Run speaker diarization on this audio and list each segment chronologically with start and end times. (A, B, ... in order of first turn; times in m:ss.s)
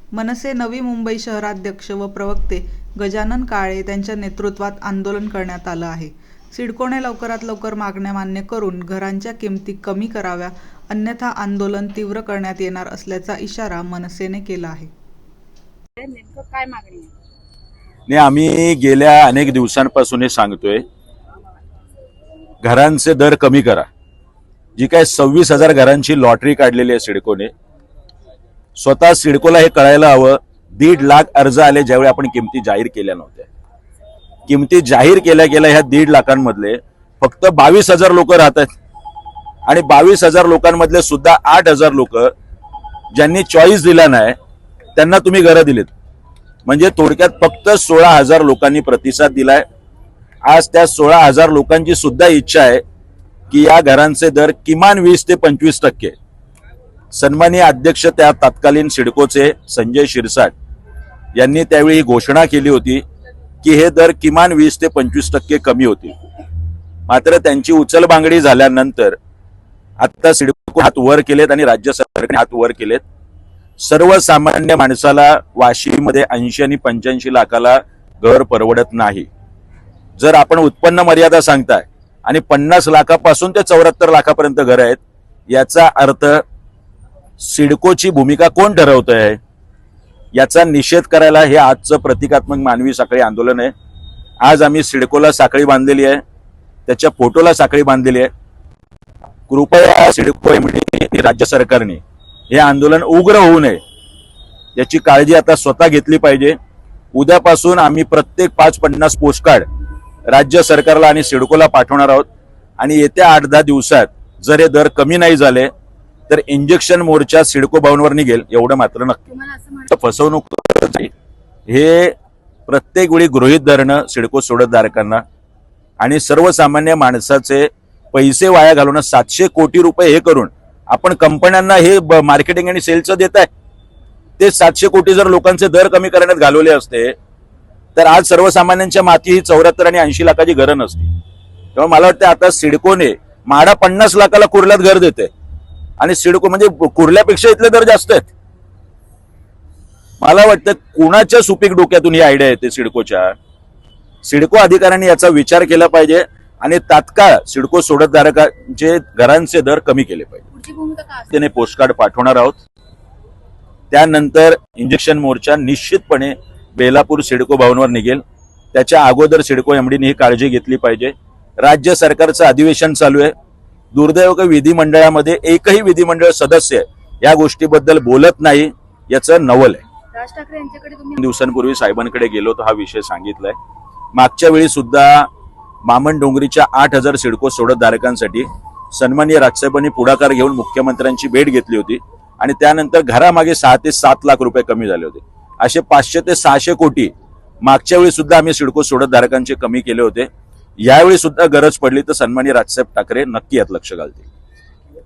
0:00.1-0:14.9 A
0:16.0-0:17.1 B
0:18.1-0:20.8 C
0:22.6-0:23.9 C
0:24.8-0:27.5 C
0:28.8-0:33.5 C
0:34.5-0:38.7 C
0:39.7-0:42.3 C
0:43.1-0:44.4 C
0:45.0-0:45.9 C
0:46.7-0:49.6 C
0:50.4-0:52.8 C
0:53.5-0:56.1 C
0:57.1-1:00.5 C
1:01.4-1:03.0 C
1:03.6-1:06.2 C
1:07.1-1:09.2 C
1:10.0-1:13.0 C
1:13.8-1:19.3 C
1:20.2-1:26.4 C
1:27.4-1:29.4 C
1:30.3-1:33.7 C
1:34.4-1:36.2 C
1:36.9-1:38.3 C
1:39.5-1:43.8 C
1:44.8-1:46.6 C
1:47.1-1:49.6 C
1:50.3-1:52.3 C
1:52.8-1:55.7 C
1:56.3-1:59.2 C
1:59.4-1:59.9 B
1:59.9-2:01.1 C
2:01.7-2:02.1 C
2:02.7-2:05.2 C
2:06.0-2:13.5 C
2:14.4-2:17.2 C
2:18.0-2:21.1 C
2:21.8-2:25.3 C
2:26.0-2:28.3 C
2:30.2-2:33.4 C
2:34.2-2:40.4 C
2:40.6-2:41.3 B
2:41.3-2:42.6 C
2:43.9-2:48.2 C
2:48.7-2:53.3 C
2:53.9-2:59.8 C
3:00.1-3:01.2 B
3:01.2-3:03.6 C
3:04.2-3:05.3 C
3:05.8-3:17.1 C
3:17.6-3:20.3 C
3:20.8-3:24.2 C